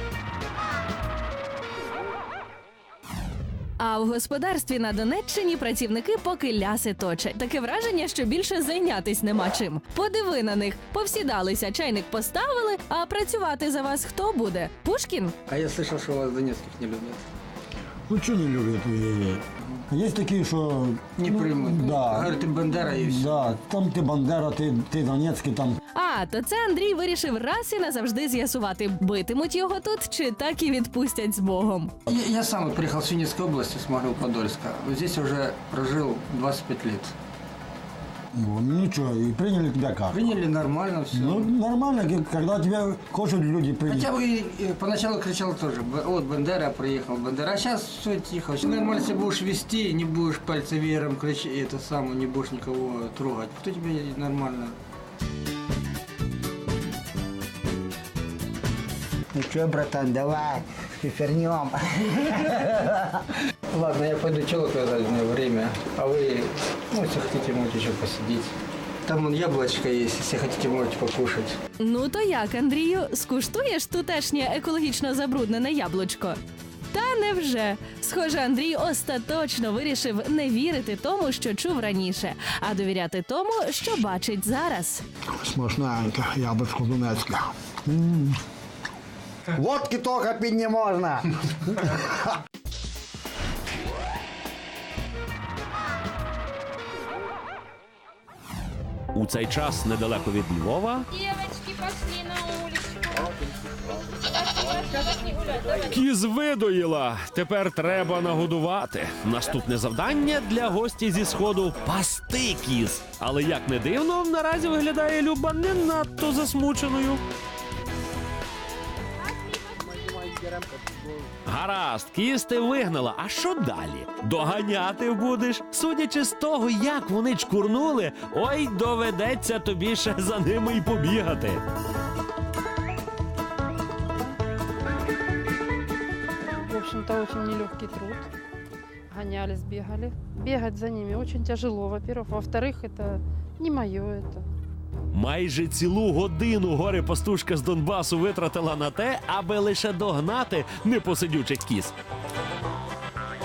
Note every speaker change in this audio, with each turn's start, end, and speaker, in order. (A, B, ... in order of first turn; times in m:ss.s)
0:03.8-0:15.3 A
0:15.5-0:17.2 B
0:18.1-0:25.8 C
0:21.2-0:23.3 B
0:25.9-0:31.9 A
0:32.1-0:37.1 B
0:38.3-0:40.3 C
0:40.1-0:41.5 B
0:41.1-0:44.1 C
0:43.8-0:54.8 B
0:59.3-1:01.8 D
1:03.7-1:08.5 B
1:09.0-1:11.6 B
1:11.8-1:16.4 A
1:16.9-1:25.0 A
1:25.5-1:27.2 C
1:25.6-1:27.3 D
1:27.9-1:28.3 C
1:29.6-1:31.2 D
1:39.1-1:41.1 E
1:41.1-1:43.2 F
1:44.1-1:46.0 F
1:45.9-1:57.2 E
2:01.4-2:11.6 E
2:16.6-2:18.3 F
2:19.1-2:24.4 F
2:25.1-2:31.9 E